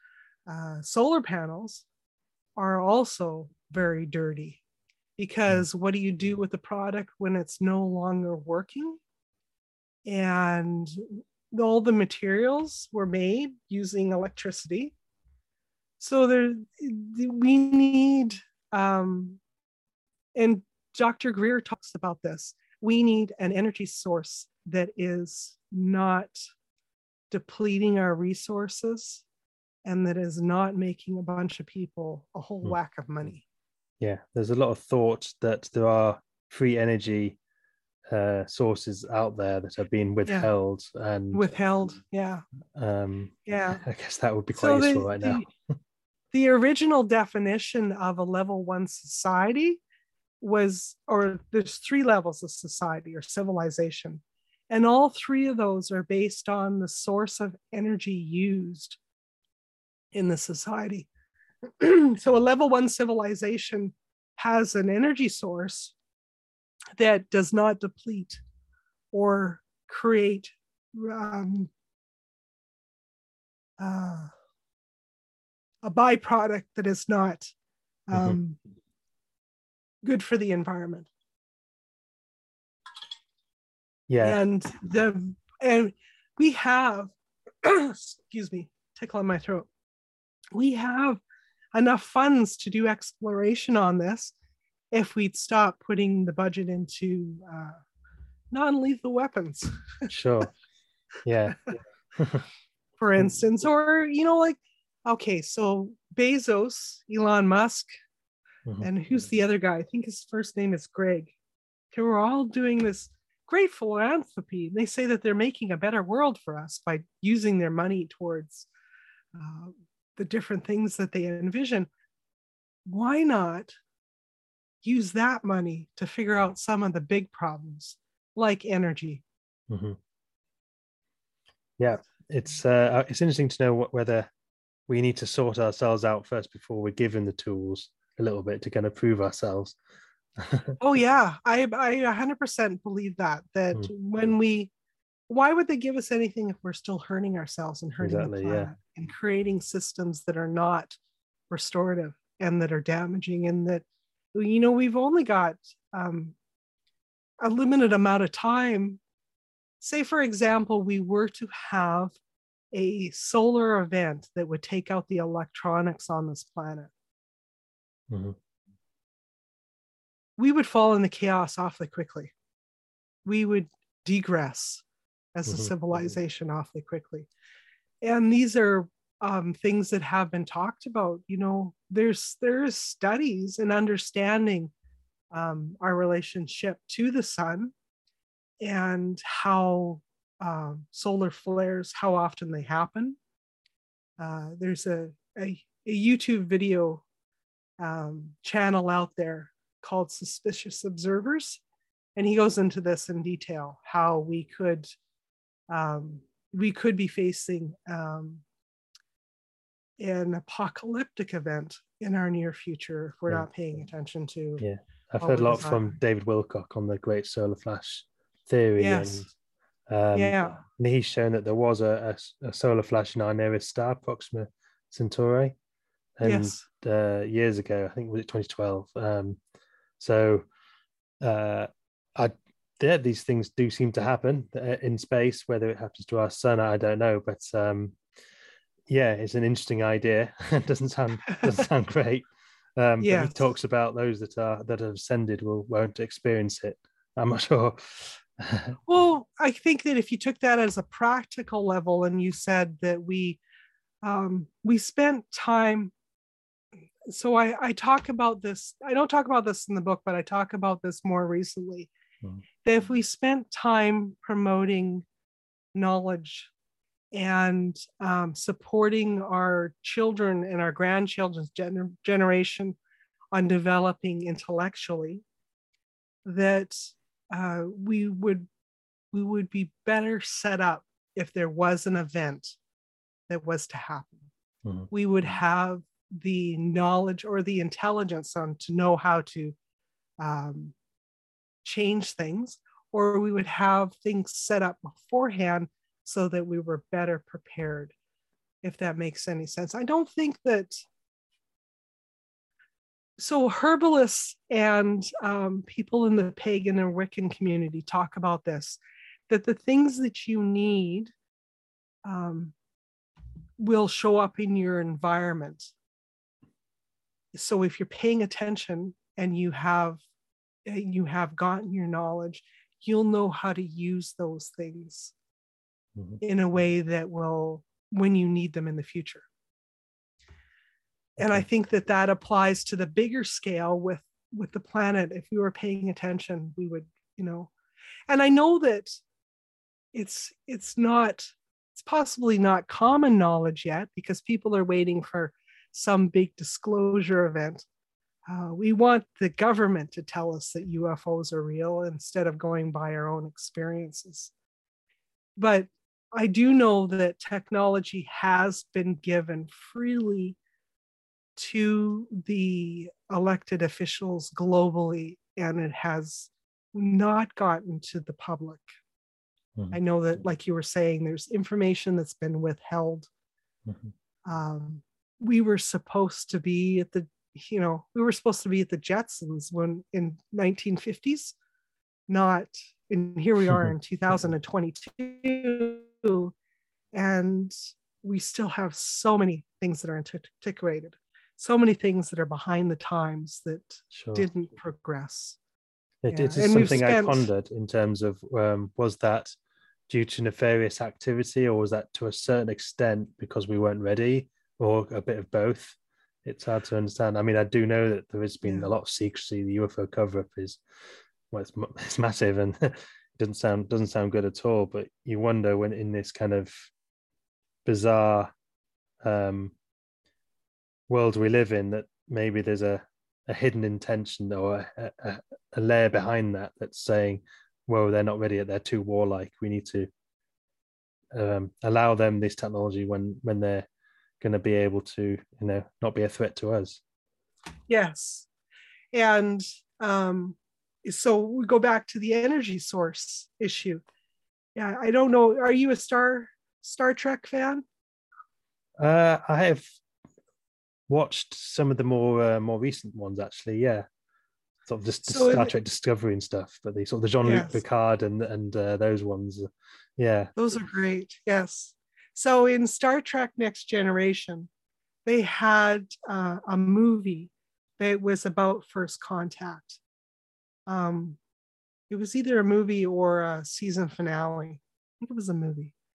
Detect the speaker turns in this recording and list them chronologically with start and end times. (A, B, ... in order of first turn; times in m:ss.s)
0:00.5-0:01.9 A
0:02.6-0:04.6 A
0:05.2-0:09.0 A
0:10.0-0:14.9 A
0:16.0-0:19.4 A
0:20.4-0:26.4 A
0:27.3-0:29.2 A
0:29.8-0:33.4 A
0:34.0-0:37.4 B
0:38.1-0:41.5 B
0:41.3-0:42.4 A
0:42.8-0:45.4 B
0:43.5-0:43.8 A
0:44.5-0:45.5 A
0:46.3-0:49.8 A
0:50.4-0:59.0 A
1:00.1-1:01.1 A
1:01.8-1:06.0 A
1:07.0-1:08.4 A
1:09.1-1:11.7 A
1:13.8-1:14.3 A
1:15.8-1:17.4 A
1:18.1-1:18.6 A
1:20.0-1:21.1 A
1:24.1-1:24.4 B
1:24.2-1:29.7 A
1:30.5-1:31.2 A
1:31.7-1:34.3 A
1:34.9-1:37.8 A
1:38.5-1:40.1 A
1:40.1-1:40.5 B
1:41.2-1:42.4 B
1:43.0-1:47.9 A
1:48.8-1:51.4 A
1:51.9-1:58.7 A
1:59.3-2:01.9 A
2:02.8-2:03.7 A
2:04.8-2:09.2 A
2:09.7-2:10.0 B
2:11.8-2:14.3 B
2:14.9-2:19.8 B
2:20.4-2:20.8 B
2:20.8-2:24.7 A
2:25.3-2:31.0 A
2:28.0-2:28.7 B
2:31.5-2:36.4 A
2:37.4-2:39.0 A
2:39.8-2:42.2 A
2:42.7-2:46.9 A
2:48.1-2:48.4 B
2:50.4-2:52.3 A
2:53.2-2:54.8 A
2:55.4-2:57.3 A
2:58.0-3:04.7 A
3:05.3-3:07.7 A
3:08.6-3:13.2 A
3:14.2-3:17.0 A
3:17.8-3:21.6 A
3:22.2-3:24.9 A
3:25.7-3:28.4 A
3:30.0-3:34.6 A
3:34.6-3:39.3 B
3:35.2-3:36.0 A
3:38.8-3:39.3 A
3:39.9-3:45.6 B
3:40.1-3:40.6 A
3:46.2-3:49.4 B
3:46.2-3:46.6 A
3:50.0-3:50.4 B
3:51.2-3:58.0 B
3:58.9-4:08.8 B
4:03.0-4:03.4 A
4:08.9-4:13.4 A
4:14.0-4:15.9 A
4:17.1-4:21.9 A
4:22.6-4:25.1 A
4:25.7-4:26.5 A
4:27.1-4:32.8 A
4:33.3-4:35.2 A
4:36.2-4:38.5 A
4:39.1-4:42.6 A
4:43.3-4:44.3 A
4:44.6-4:44.9 B
4:44.9-4:49.6 A
4:50.2-4:50.8 A
4:51.6-4:57.9 A
4:58.6-5:00.8 A
5:03.2-5:11.1 A
5:12.0-5:12.6 A
5:13.6-5:15.7 A
5:17.3-5:20.0 A
5:20.6-5:25.1 A
5:26.2-5:29.3 A
5:31.2-5:37.5 A
5:38.1-5:39.0 A
5:39.9-5:47.6 A
5:48.3-5:54.3 A
5:55.4-6:00.4 A
6:01.4-6:08.7 A
6:09.7-6:13.1 A
6:13.7-6:13.9 B
6:14.2-6:21.4 A
6:22.1-6:26.3 A
6:26.9-6:35.4 A
6:33.9-6:34.3 B
6:36.0-6:39.3 B
6:36.1-6:37.3 A
6:39.9-6:50.6 B
6:48.4-6:48.7 A
6:51.3-6:56.7 B
6:57.7-6:58.3 B
6:59.0-6:59.6 B
7:00.9-7:09.9 B
7:11.1-7:13.7 B
7:14.2-7:16.8 B
7:17.7-7:18.3 A
7:18.9-7:23.8 A
7:24.6-7:27.6 A
7:28.8-7:29.7 B
7:30.9-7:33.9 B
7:34.7-7:40.3 B
7:35.1-7:35.5 A
7:37.2-7:37.6 A
7:40.4-7:44.5 A
7:45.0-7:49.8 A
7:50.7-7:51.2 A
7:51.9-7:55.8 A